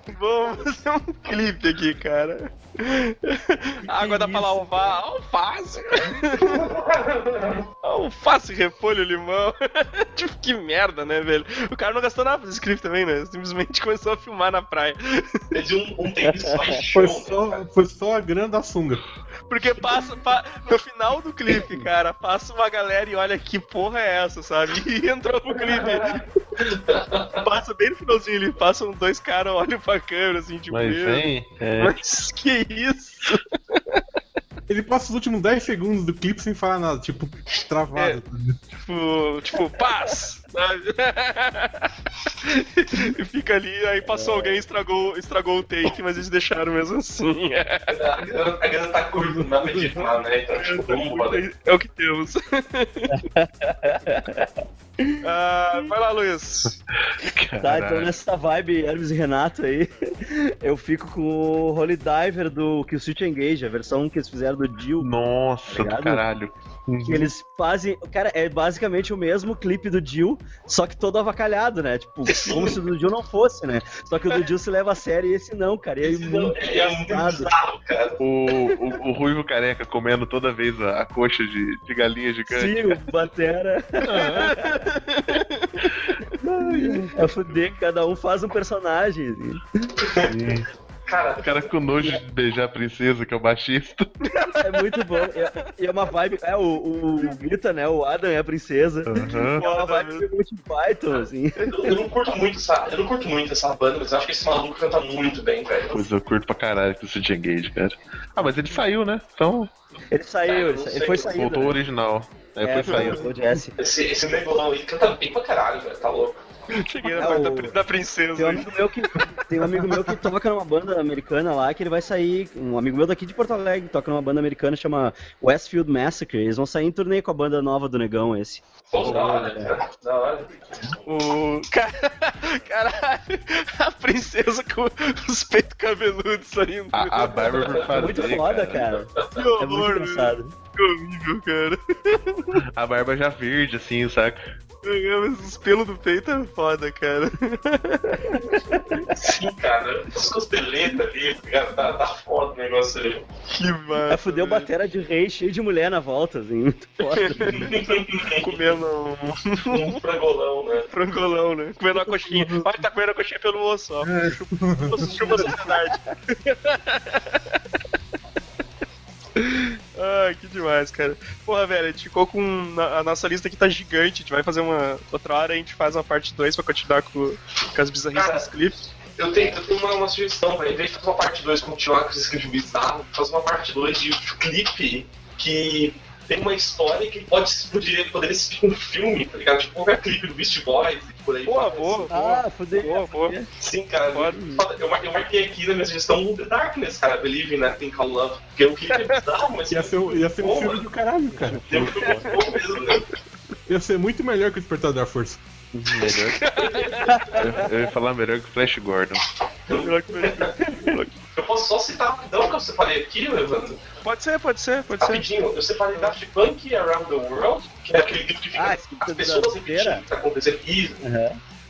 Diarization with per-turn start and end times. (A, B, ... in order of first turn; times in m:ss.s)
0:00.1-0:06.7 A
0:03.9-0:04.9 B
0:06.3-0:07.6 C
0:07.8-0:15.4 A
0:15.5-0:17.6 C
0:16.3-0:16.7 B
0:16.9-0:19.0 D
0:19.5-0:26.3 A
0:25.6-0:27.4 C
0:27.4-0:31.2 A
0:30.7-0:32.0 E
0:31.8-0:34.0 A
0:34.7-0:38.6 D
0:37.9-0:38.2 A
0:38.8-0:48.2 A
0:44.1-0:44.6 B
0:47.9-0:51.4 C
0:49.2-0:50.2 D
0:50.6-0:53.2 A
0:53.1-0:55.2 B
0:55.2-0:56.8 A
0:57.2-0:58.1 E
0:57.6-1:05.1 B
1:05.0-1:07.3 E
1:05.7-1:06.2 B
1:07.0-1:17.5 B
1:12.4-1:12.8 C
1:16.0-1:18.2 C
1:18.2-1:23.0 E
1:22.5-1:24.9 B
1:24.0-1:24.6 E
1:24.2-1:25.9 A
1:26.4-1:27.4 E
1:27.1-1:29.9 B
1:30.0-1:30.3 C
1:30.2-1:30.7 E
1:31.1-1:31.7 C
1:31.4-1:34.1 E
1:34.2-1:35.6 A
1:34.5-1:42.0 B
1:39.1-1:39.6 E
1:39.6-1:40.3 A
1:41.6-1:46.0 C
1:45.9-1:49.7 E
1:50.1-1:51.8 B
1:50.4-1:51.3 C
1:51.2-1:53.3 E
1:52.6-1:53.8 B
1:53.8-1:56.4 C
1:56.7-1:59.3 A
1:57.1-1:57.8 B
1:58.3-2:09.7 B
1:59.7-2:00.3 D
2:08.9-2:10.5 C
2:09.0-2:09.6 E
2:11.1-2:17.9 A
2:11.2-2:11.4 E
2:16.9-2:18.9 E
2:17.9-2:20.5 B
2:19.3-2:22.6 A
2:22.5-2:24.4 E
2:24.8-2:28.6 A
2:28.1-2:29.1 B
2:29.1-2:33.3 C
2:33.5-2:34.7 A
2:34.1-2:37.8 B
2:37.1-2:40.0 A
2:37.3-2:38.7 C
2:39.7-2:40.9 C
2:40.9-2:47.6 A
2:42.2-2:42.7 D
2:44.0-2:45.4 D
2:45.0-2:46.1 B
2:49.4-2:58.8 A
2:58.1-2:58.5 C
2:59.2-3:12.1 C
3:11.4-3:13.3 A
3:12.1-3:13.5 B
3:13.6-3:20.8 C
3:14.1-3:14.5 A
3:18.9-3:19.2 A
3:19.7-3:21.9 D
3:21.5-3:22.3 E
3:21.6-3:23.0 C
3:22.0-3:23.0 A
3:23.7-3:25.4 D
3:25.7-3:29.2 E
3:26.0-3:27.5 A
3:27.1-3:27.4 B
3:29.7-3:30.5 C
3:29.8-3:31.2 A
3:31.3-3:33.8 C
3:34.0-3:35.3 A
3:35.0-3:41.0 C
3:38.5-3:40.0 B
3:41.0-3:41.4 B